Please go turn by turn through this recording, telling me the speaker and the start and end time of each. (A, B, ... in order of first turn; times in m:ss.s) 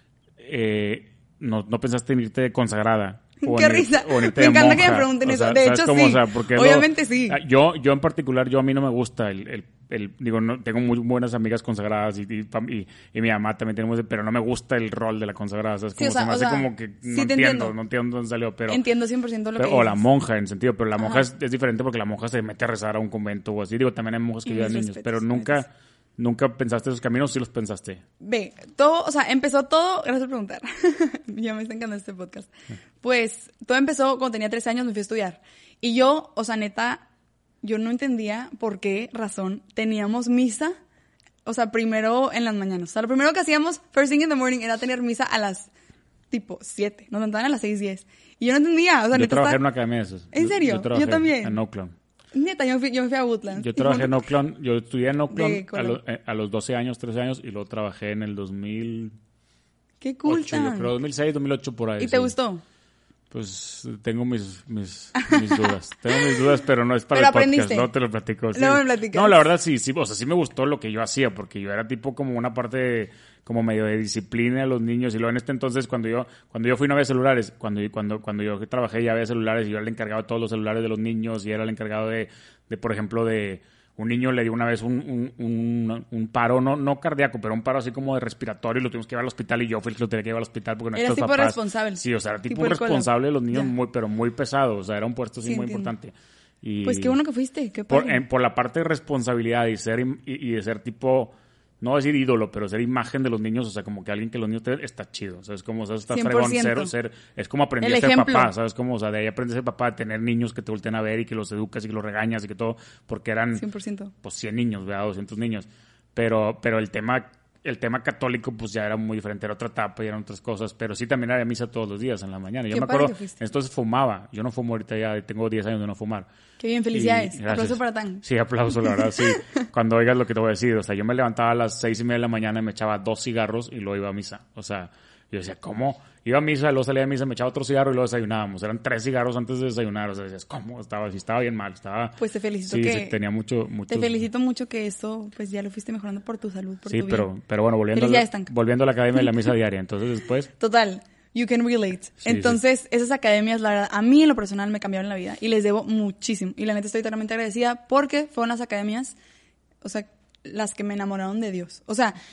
0:00.4-0:18.8 A
0:03.4-0:07.4 B
0:16.0-0:17.7 B
0:18.7-0:20.0 B
0:19.6-0:28.0 A
0:21.0-0:21.2 B
0:24.4-0:25.6 B
0:28.2-0:37.1 B
0:37.6-0:40.8 B
0:41.4-0:45.7 B
0:46.3-0:49.6 B
0:49.1-0:52.0 A
0:50.3-0:51.6 B
0:52.3-0:54.2 B
0:53.6-0:59.2 A
0:55.3-0:56.0 B
1:00.0-1:00.9 B
1:00.3-1:02.3 A
1:02.0-1:02.6 B
1:03.3-1:37.2 A
1:07.1-1:07.9 B
1:08.5-1:09.4 B
1:30.9-1:33.7 B
1:35.4-1:35.9 B
1:36.8-1:38.2 B
1:37.9-1:53.6 A
1:46.1-1:46.9 B
1:47.8-1:48.5 B
1:53.6-1:54.1 B
1:54.2-2:06.3 A
2:02.7-2:03.4 B
2:06.6-2:08.2 B
2:06.9-2:24.1 A
2:08.8-2:09.4 B
2:22.2-2:23.2 B
2:23.9-2:27.3 B
2:26.9-2:30.5 A
2:27.9-2:28.5 B
2:30.6-2:39.2 B
2:32.2-2:32.6 A
2:39.8-2:42.2 B